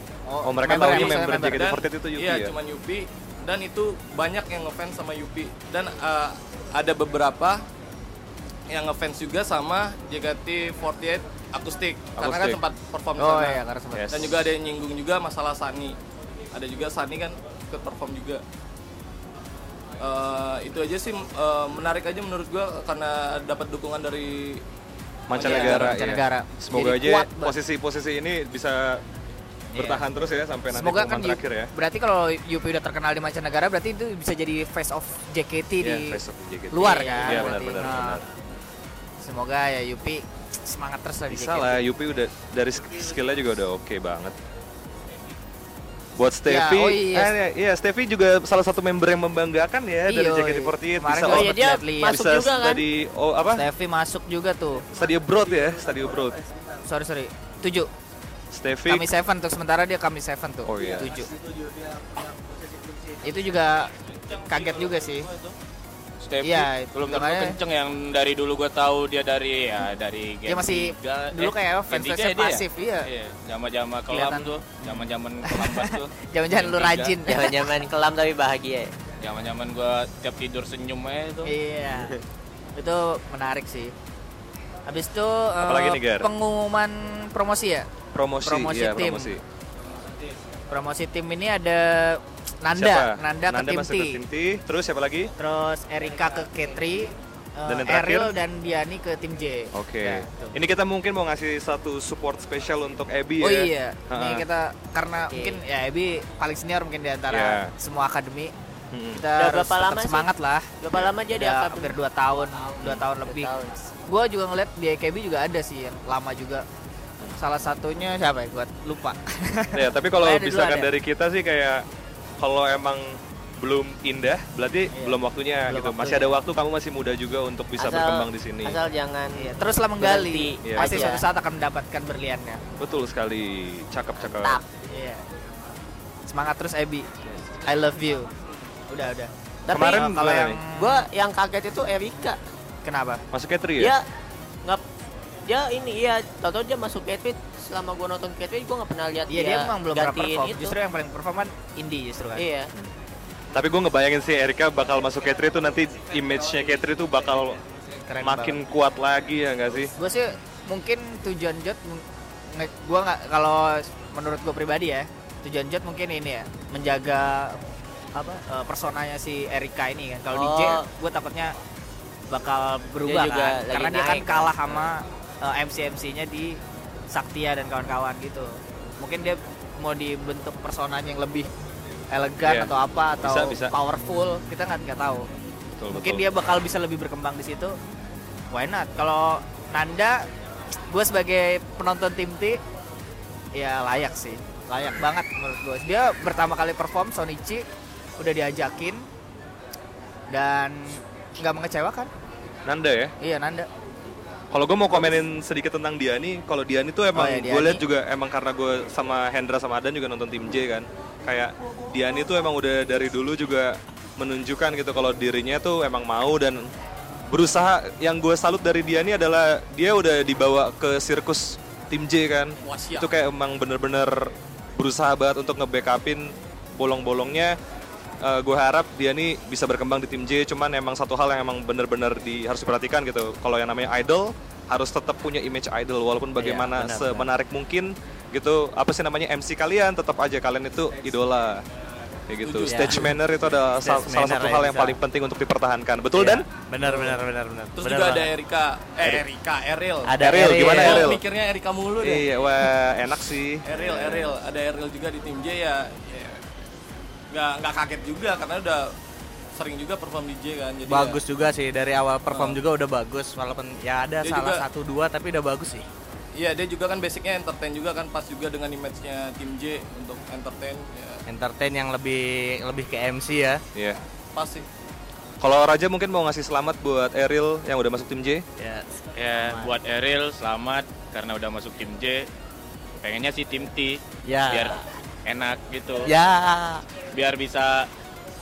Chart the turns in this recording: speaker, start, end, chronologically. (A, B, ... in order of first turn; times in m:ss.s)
0:00.3-0:01.6 A
0:00.4-0:02.5 B
0:00.7-0:07.6 C
0:08.7-0:16.0 C
0:12.2-0:12.6 B
0:13.2-0:14.1 A
0:13.9-0:14.3 B
0:16.5-0:18.4 C
0:20.0-0:24.6 C
0:25.3-0:29.0 B
0:25.3-0:27.5 A
0:25.4-0:25.8 C
0:29.7-0:30.0 A
0:29.8-0:31.7 B
0:30.7-0:36.2 A
0:35.8-0:38.2 B
0:36.7-0:38.2 A
0:36.8-0:37.7 D
0:39.2-0:41.8 A
0:41.3-0:44.3 B
0:46.2-0:53.6 B
0:46.5-0:47.3 A
0:50.1-0:52.2 A
0:51.3-0:52.8 D
0:53.6-0:54.9 A
0:54.9-0:56.4 B
0:56.8-0:57.9 A
0:58.5-0:59.1 B
0:58.9-1:01.3 A
1:00.6-1:01.2 B
1:03.2-1:05.3 A
1:05.0-1:05.5 E
1:06.2-1:17.2 E
1:06.4-1:07.6 A
1:10.5-1:13.1 A
1:14.1-1:14.6 A
1:15.4-1:17.6 A
1:17.3-1:18.9 D
1:19.2-1:21.5 E
1:21.4-1:22.1 A
1:22.8-1:23.9 A
1:24.9-1:27.9 A
1:25.6-1:26.3 B
1:28.1-1:29.4 B
1:28.4-1:29.4 A
1:30.7-1:34.2 A
1:32.8-1:35.3 B
1:35.4-1:40.5 A
1:37.7-1:38.3 B
1:39.7-1:44.4 B
1:43.4-1:48.5 A
1:45.3-1:45.6 D
1:47.3-1:47.7 B
1:48.9-1:49.2 B
1:49.1-1:50.7 A
1:49.4-1:50.3 D
1:50.8-1:51.9 D
1:51.3-1:56.6 A
1:52.8-1:53.7 D
1:57.4-2:00.9 A
1:59.7-2:01.8 B
2:02.4-2:08.8 B
2:04.9-2:06.3 A
2:07.8-2:09.4 D
2:09.4-2:12.6 A
2:10.0-2:11.2 D
2:10.6-2:11.1 B
2:12.8-2:14.6 B
2:14.2-2:14.6 D
2:14.9-2:15.2 A
2:16.3-2:17.1 A
2:17.2-2:17.5 B
2:17.6-2:18.3 A
2:18.9-2:21.0 A
2:19.7-2:22.4 D
2:19.7-2:20.6 B
2:22.8-2:23.2 A
2:23.3-2:23.9 B
2:23.8-2:24.0 D
2:25.5-2:30.7 D
2:29.3-2:32.4 A
2:32.4-2:32.7 D
2:33.5-2:37.6 B
2:38.0-2:38.6 A
2:38.2-2:39.9 B
2:39.9-2:47.6 A
2:48.2-2:51.5 A
2:50.3-2:50.8 D
2:52.3-2:56.6 A
2:53.0-2:54.5 D
2:57.1-3:01.5 A
3:02.1-3:05.3 A
3:02.4-3:03.7 B
3:05.8-3:06.2 B
3:05.9-3:07.8 A
3:08.5-3:10.2 A
3:10.9-3:12.6 A
3:13.6-3:17.6 A
3:18.2-3:19.0 A
3:20.3-3:22.1 A
3:22.6-3:23.1 B
3:23.2-3:23.7 A
3:24.5-3:36.6 B
3:27.1-3:27.8 A
3:37.3-3:47.5 B
3:42.6-3:43.1 C
3:48.2-4:01.6 B
3:56.4-3:57.3 F
4:02.3-4:06.4 B
4:02.4-4:03.0 C
4:02.7-4:03.1 F
4:03.8-4:05.0 F
4:06.2-4:08.3 F
4:06.8-4:07.2 C
4:07.8-4:12.2 C
4:10.0-4:11.2 F
4:10.2-4:11.2 B
4:12.0-4:14.3 B
4:13.6-4:16.4 C
4:17.3-4:18.8 C
4:19.6-4:21.2 C
4:20.8-4:25.8 F
4:22.3-4:22.6 C
4:24.2-4:24.6 C
4:26.4-4:31.2 C
4:31.3-4:33.6 F
4:34.3-4:34.6 C
4:35.4-4:38.4 B
4:38.6-4:39.7 F
4:39.2-4:42.2 E
4:43.0-4:46.1 E
4:44.2-4:44.8 F
4:46.0-4:46.8 F
4:47.1-4:47.9 E